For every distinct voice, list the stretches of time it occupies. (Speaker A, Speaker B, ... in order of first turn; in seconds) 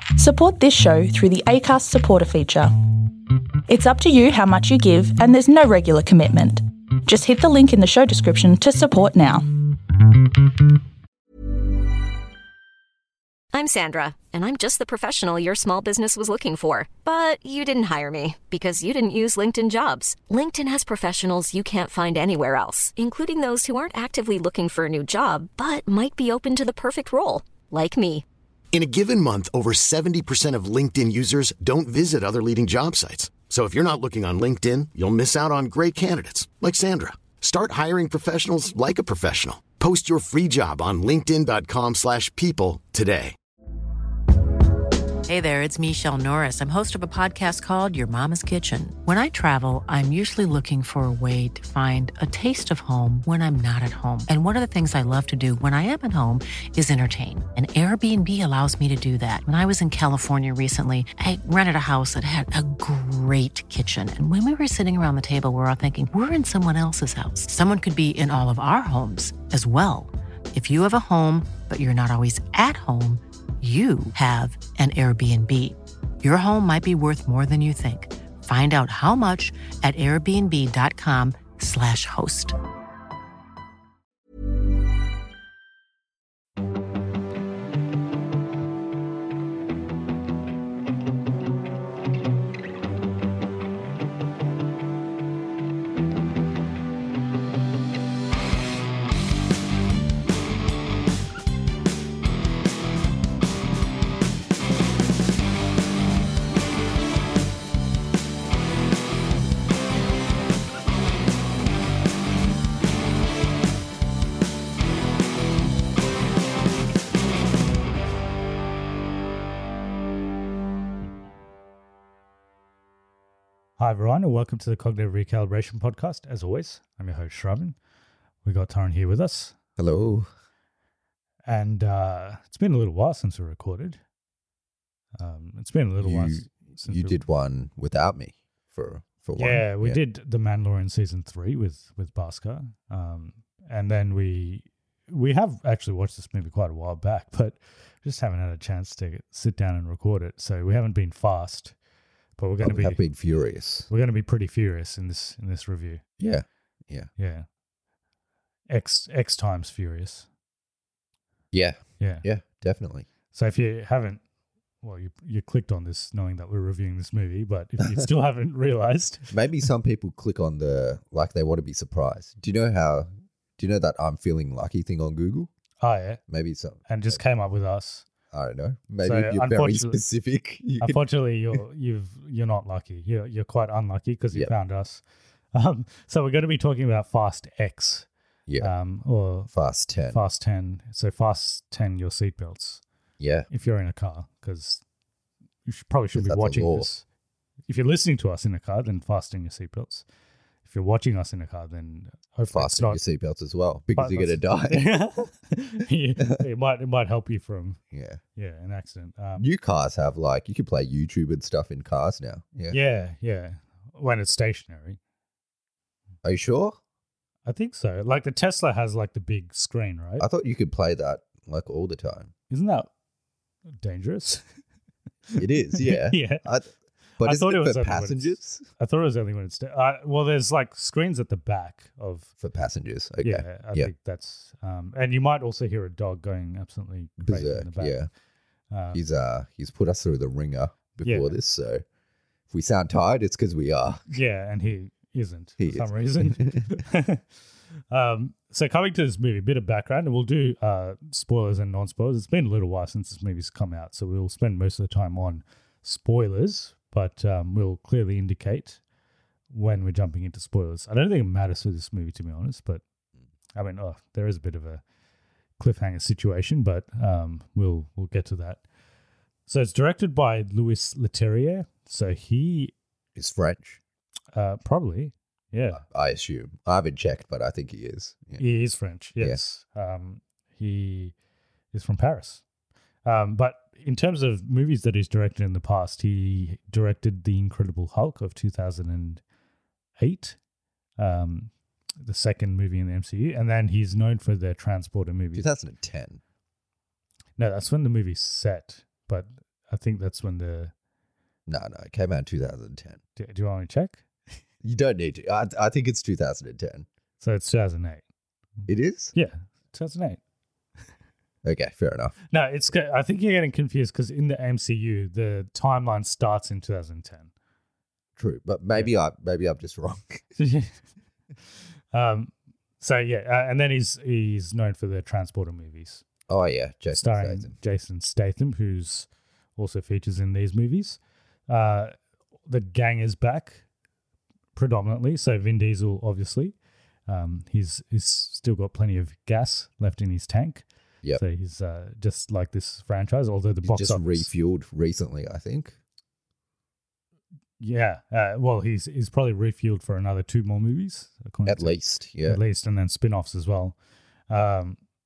Speaker A: 0.1-9.8
Speaker B: 13.5-28.2
Speaker C: 28.7-43.3
Speaker D: 45.3-82.6
Speaker E: 123.8-127.8, 128.4-129.5, 131.4-134.0, 135.2-137.2, 139.3-151.7, 152.4-153.0, 153.9-156.0, 157.2-157.4, 158.7-160.3, 162.0-162.2, 163.3-164.2, 164.8-169.3, 175.8-176.2, 176.9-178.1, 179.0-180.0, 180.8-185.0, 185.5-188.1, 188.6-189.5, 190.1-192.8, 193.5-194.8, 195.7-197.0, 197.7-200.0, 200.6-203.0, 203.9-207.8, 208.3-209.5, 212.7-215.0, 217.4-220.2, 222.5-222.9, 223.8-224.4, 225.3-226.4, 227.2-232.3, 233.2-237.9, 238.7-239.0, 241.0-241.3, 244.1-247.2, 247.9-258.8, 259.5-262.8, 263.5-264.8, 265.6-268.6, 269.5-272.7, 274.3-275.8, 278.4-281.1, 281.7-282.4, 283.0-289.2, 290.0-290.4, 291.0-291.5, 292.0-295.5, 297.4-300.7, 303.2-304.0, 307.2-308.0, 309.1-310.2, 312.3-317.3, 320.4-320.7, 321.9-326.0, 326.9-331.9, 332.5-333.6, 334.5-336.5, 337.1-344.3, 347.6-353.8, 354.3-354.8
Speaker F: 129.8-130.3, 136.0-140.0, 152.6-153.9, 156.2-157.1, 161.5-163.1, 167.8-168.1, 169.3-175.5, 176.3-176.9, 178.3-181.0, 188.5-188.7, 189.5-190.2, 193.2-193.5, 196.1-196.9, 202.5-204.9, 206.2-206.4, 207.9-208.2, 209.4-212.8, 216.2-216.8, 220.2-222.3, 225.4-228.6, 232.4-233.9, 237.2-238.1, 238.9-241.8, 242.5-244.1, 245.6-246.8, 273.1-273.8, 275.7-278.4, 295.3-296.2, 301.5-303.0, 304.6-306.9, 308.7-309.1, 311.4-312.1, 318.1-320.2, 326.3-327.5, 343.6-345.8, 351.4-352.4